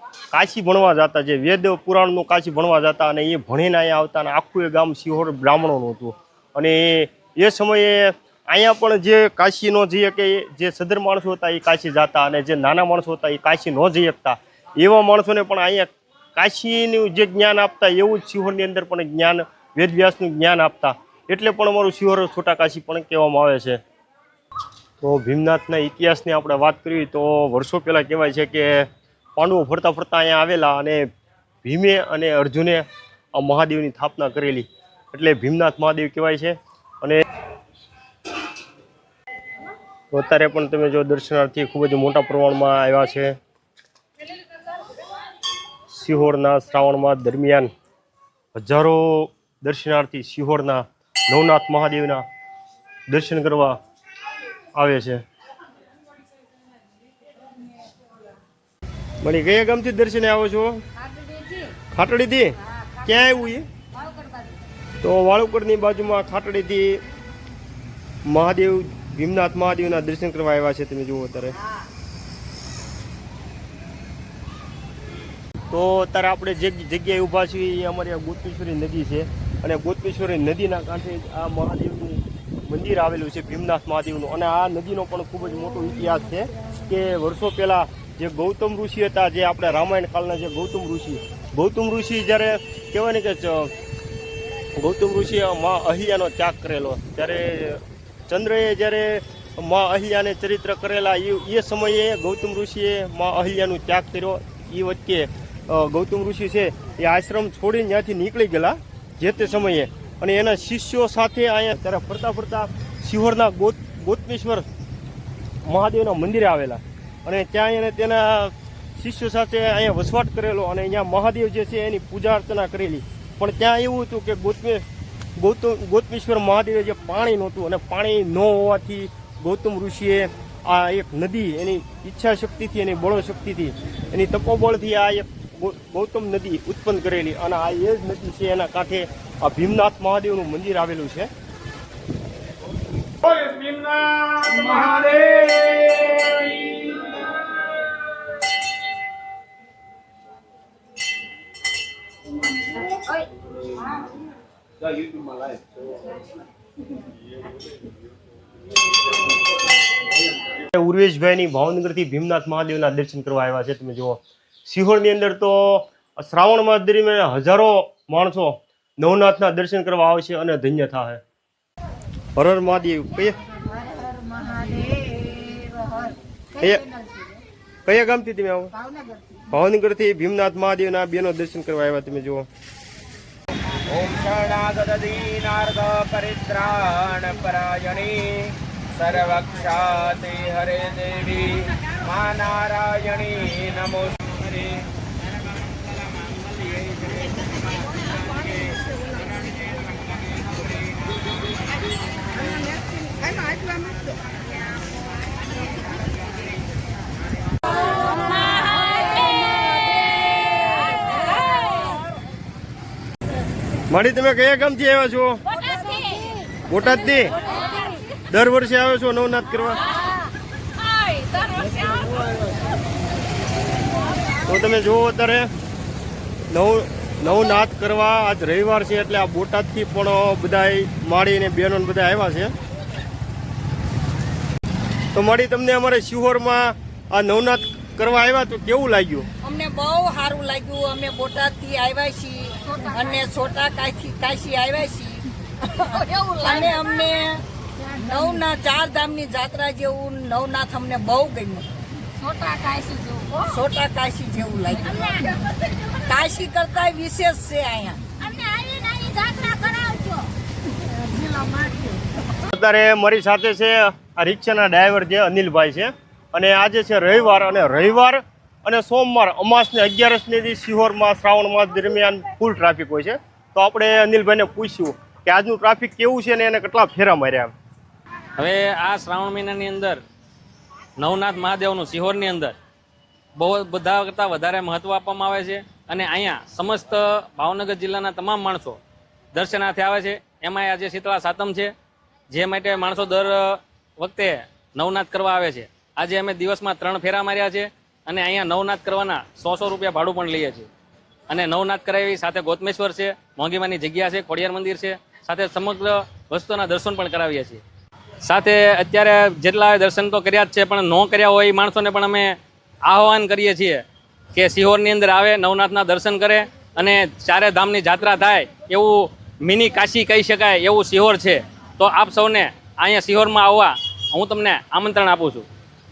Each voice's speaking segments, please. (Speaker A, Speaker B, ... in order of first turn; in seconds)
Speaker A: 0.3-23.8, 25.0-31.1, 31.6-37.2, 40.1-43.4, 45.9-47.7, 48.5-52.2, 53.1-53.8, 54.8-55.2, 59.2-60.8, 61.9-63.7, 65.0-67.0, 68.2-71.6, 75.7-93.7, 94.8-114.7, 115.7-124.8, 125.4-141.3, 160.7-171.2, 172.4-173.4, 176.6-176.9, 177.9-178.7, 179.5-182.5, 213.9-215.4, 216.7-217.4, 218.3-219.8, 224.4-225.5, 226.5-232.5, 235.1-239.3, 262.4-277.5
Speaker B: 143.5-144.6, 145.2-146.2, 183.9-194.2
Speaker C: 173.7-176.2, 176.9-177.4, 203.5-204.0, 208.1-209.8, 210.4-212.0, 215.8-216.3, 220.8-222.4, 245.9-246.4, 252.1-253.4, 258.2-260.3, 261.0-261.9
Speaker D: 239.4-251.7, 253.4-258.2
Speaker E: 278.4-280.0, 281.0-282.6, 283.4-288.8, 289.3-291.7, 292.3-300.7, 301.3-307.6, 308.2-325.5